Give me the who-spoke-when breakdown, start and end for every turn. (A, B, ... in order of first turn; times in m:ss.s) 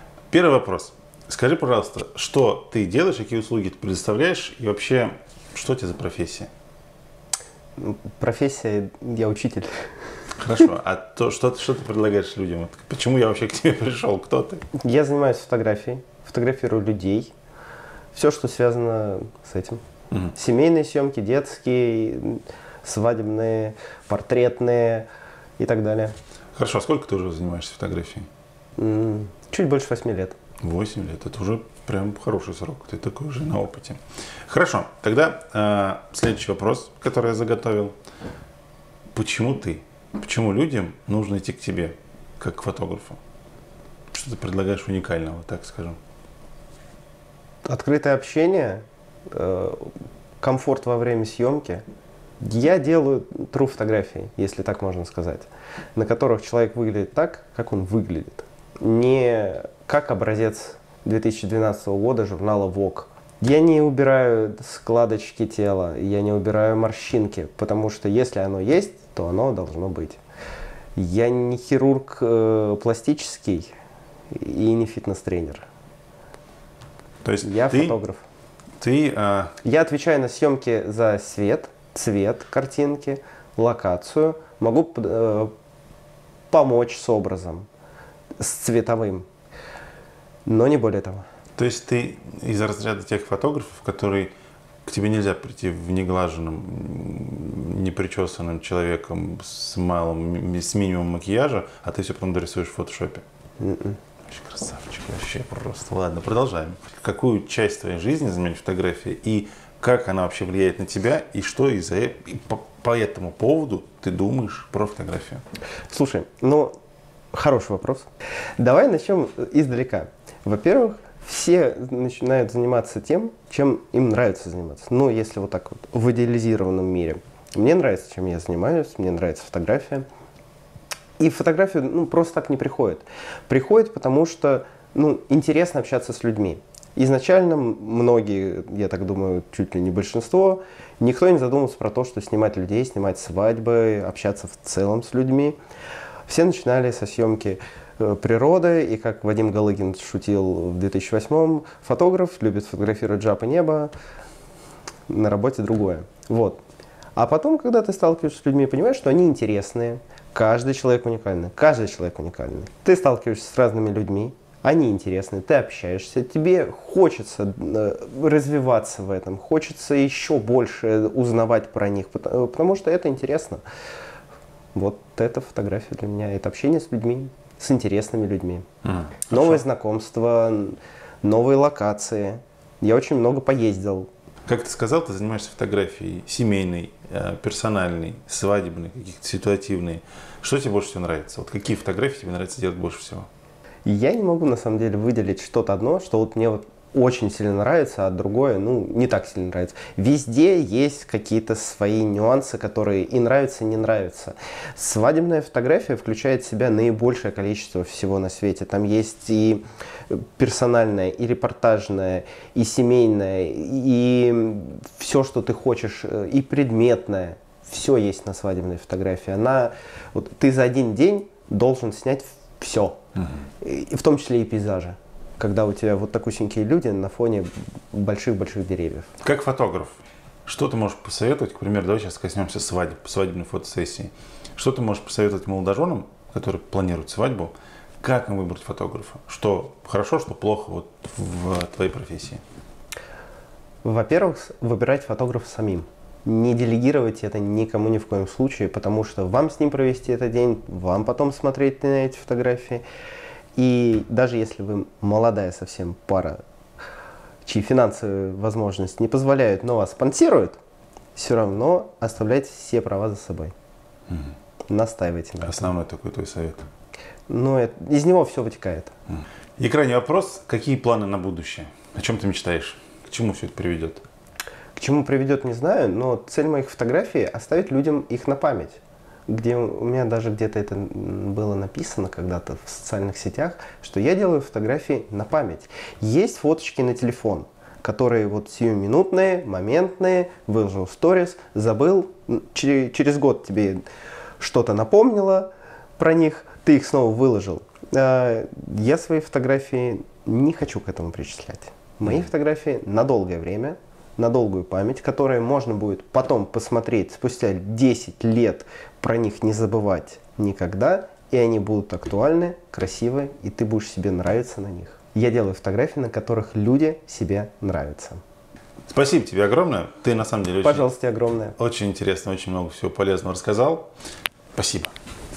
0:00.3-0:06.5 A
0:07.8-0:09.9 B
0:10.4-0:14.6 A
0:14.8-0:17.3 B
0:18.2-0:19.8 B
0:20.3-0:25.1 B
0:25.6-0:26.2 B
0:26.6-0:28.3 A
0:28.8-0:30.4 B
0:30.6-0:38.0 A
0:39.1-0:43.2 A
0:44.1-0:46.0 A
0:47.6-0:51.8 B
0:52.4-1:10.2 B
1:11.0-1:13.7 B
1:14.3-1:15.7 B
1:17.2-1:18.0 A
1:17.4-1:18.2 B
1:18.8-1:19.6 A
1:19.6-1:25.5 B
1:26.5-1:27.7 B
1:28.4-1:29.3 B
1:30.5-1:31.2 B
1:31.6-1:34.3 A
1:34.8-1:43.2 A
1:43.6-1:44.0 B
1:44.3-1:55.4 A
1:55.9-1:56.7 B
1:57.3-2:10.1 B
2:11.2-2:25.6 B
2:26.3-2:33.9 B
2:35.1-2:36.6 B
2:37.2-2:53.6 B
2:54.7-2:58.7 B
2:58.8-2:59.6 A
2:59.3-3:04.1 B
3:04.5-3:13.3 A
3:13.8-3:43.0 B
3:43.6-3:49.1 B
3:49.2-4:02.4 A
4:03.8-4:12.8 B
4:13.6-4:16.4 B
4:17.4-4:20.6 B
4:21.2-4:23.5 B
4:24.1-4:24.3 A
4:24.7-4:25.7 B
4:25.4-4:26.6 A
4:27.3-4:28.9 B
4:29.6-4:34.0 A
4:34.8-4:53.8 B
4:54.4-5:18.2 B
5:18.9-5:20.9 A
5:20.6-5:21.6 B
5:21.6-5:23.9 A
5:24.6-5:24.9 A